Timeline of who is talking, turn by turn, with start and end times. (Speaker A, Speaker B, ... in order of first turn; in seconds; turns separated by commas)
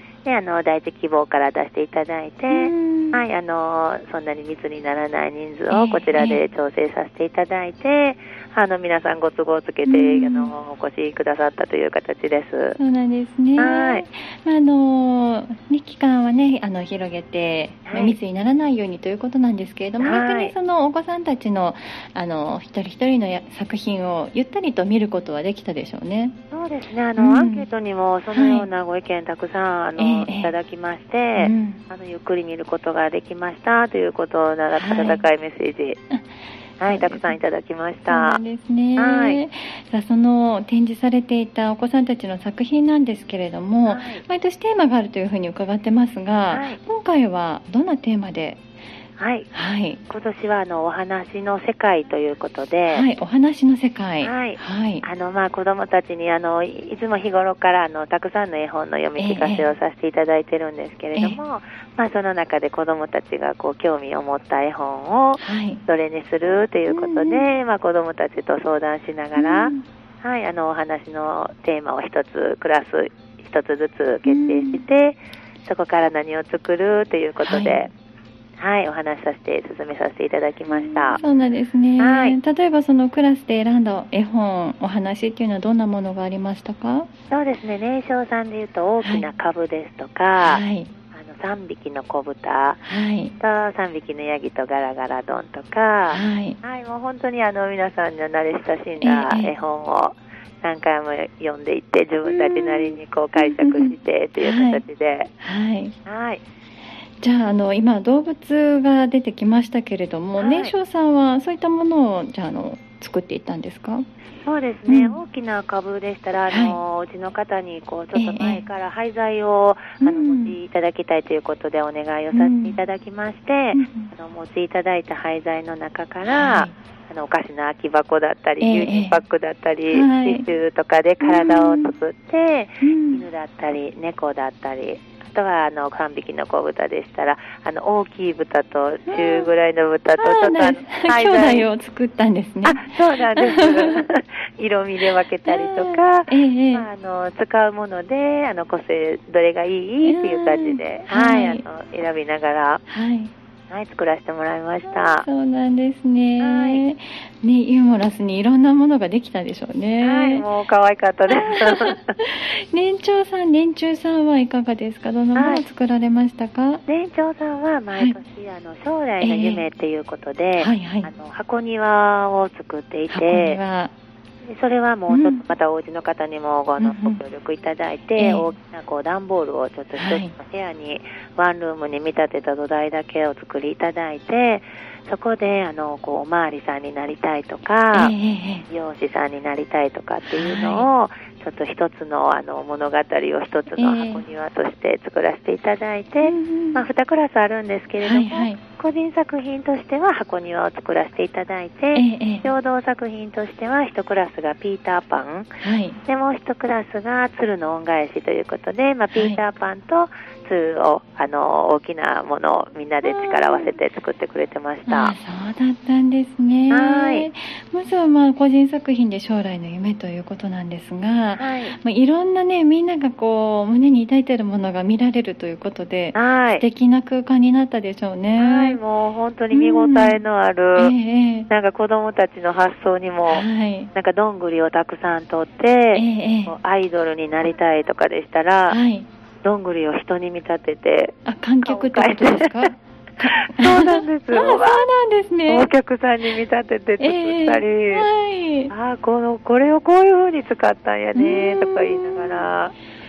Speaker A: 0.2-12.8, Speaker B: 2.5-3.2, Speaker B: 5.7-6.4, Speaker B: 9.8-10.5, Speaker B: 12.8-26.4, Speaker A: 13.6-14.0, Speaker A: 17.9-18.2, Speaker A: 20.0-20.5, Speaker A: 26.5-36.0, Speaker B: 27.2-27.6, Speaker B: 28.3-28.7, Speaker B: 30.0-30.5, Speaker B: 31.4-31.8, Speaker B: 34.7-35.2, Speaker A: 36.8-38.4, Speaker B: 36.9-37.4, Speaker B: 38.1-48.6, Speaker A: 39.0-39.4, Speaker A: 43.9-44.2, Speaker A: 46.5-46.8, Speaker A: 49.2-49.5, Speaker B: 49.5-50.0, Speaker A: 50.1-53.0, Speaker B: 52.9-55.0, Speaker A: 54.2-77.9, Speaker B: 59.2-59.6, Speaker B: 65.4-65.8, Speaker B: 66.9-67.5, Speaker B: 69.4-69.8, Speaker B: 74.2-74.8, Speaker B: 77.4-77.9, Speaker A: 78.6-81.2, Speaker B: 80.7-87.1, Speaker A: 82.0-82.3, Speaker A: 87.3-92.8, Speaker B: 90.4-90.9, Speaker B: 92.8-93.3, Speaker A: 93.4-105.3, Speaker B: 96.1-96.6, Speaker B: 99.0-99.5, Speaker B: 102.2-104.8, Speaker B: 105.4-105.9, Speaker A: 106.0-106.4, Speaker B: 107.2-114.0, Speaker A: 110.4-110.7, Speaker A: 114.4-141.7, Speaker B: 114.9-115.2, Speaker B: 116.5-116.8, Speaker B: 118.1-118.6, Speaker B: 120.0-120.5, Speaker B: 122.3-122.8, Speaker B: 123.7-124.1, Speaker B: 126.2-126.7, Speaker B: 128.6-129.2, Speaker B: 129.9-130.4, Speaker B: 131.2-131.9, Speaker B: 132.8-133.2, Speaker B: 139.1-139.5, Speaker B: 140.2-144.0, Speaker A: 142.6-152.8, Speaker B: 145.5-146.9, Speaker B: 150.0-151.6, Speaker B: 152.9-153.3, Speaker A: 153.7-155.2, Speaker B: 154.9-160.4, Speaker A: 156.4-156.8, Speaker A: 160.0-162.1, Speaker B: 161.7-166.8, Speaker A: 165.3-165.6, Speaker A: 166.9-173.6, Speaker B: 169.2-169.6, Speaker B: 170.6-171.1, Speaker B: 173.1-173.9, Speaker A: 174.5-188.1, Speaker B: 175.1-175.4, Speaker B: 176.8-177.2, Speaker B: 178.2-178.5, Speaker B: 179.9-180.3, Speaker B: 187.9-188.6, Speaker A: 188.7-205.5, Speaker B: 190.3-190.9, Speaker B: 193.7-194.2, Speaker B: 196.2-196.8, Speaker B: 198.0-198.6, Speaker B: 201.9-202.4, Speaker B: 205.6-206.0, Speaker A: 206.1-215.1, Speaker B: 209.1-209.4, Speaker B: 213.0-213.7, Speaker B: 214.9-228.8, Speaker A: 216.7-217.2, Speaker A: 221.4-221.7, Speaker A: 226.1-226.6, Speaker A: 228.4-230.9, Speaker B: 229.5-230.2, Speaker B: 230.8-231.5, Speaker A: 231.5-238.8, Speaker B: 233.3-233.9, Speaker B: 235.9-236.5, Speaker B: 238.7-239.1, Speaker A: 239.4-242.7, Speaker B: 241.2-245.7, Speaker A: 243.3-244.8, Speaker A: 245.5-248.1, Speaker B: 247.0-248.7, Speaker A: 248.7-252.7, Speaker B: 251.1-252.5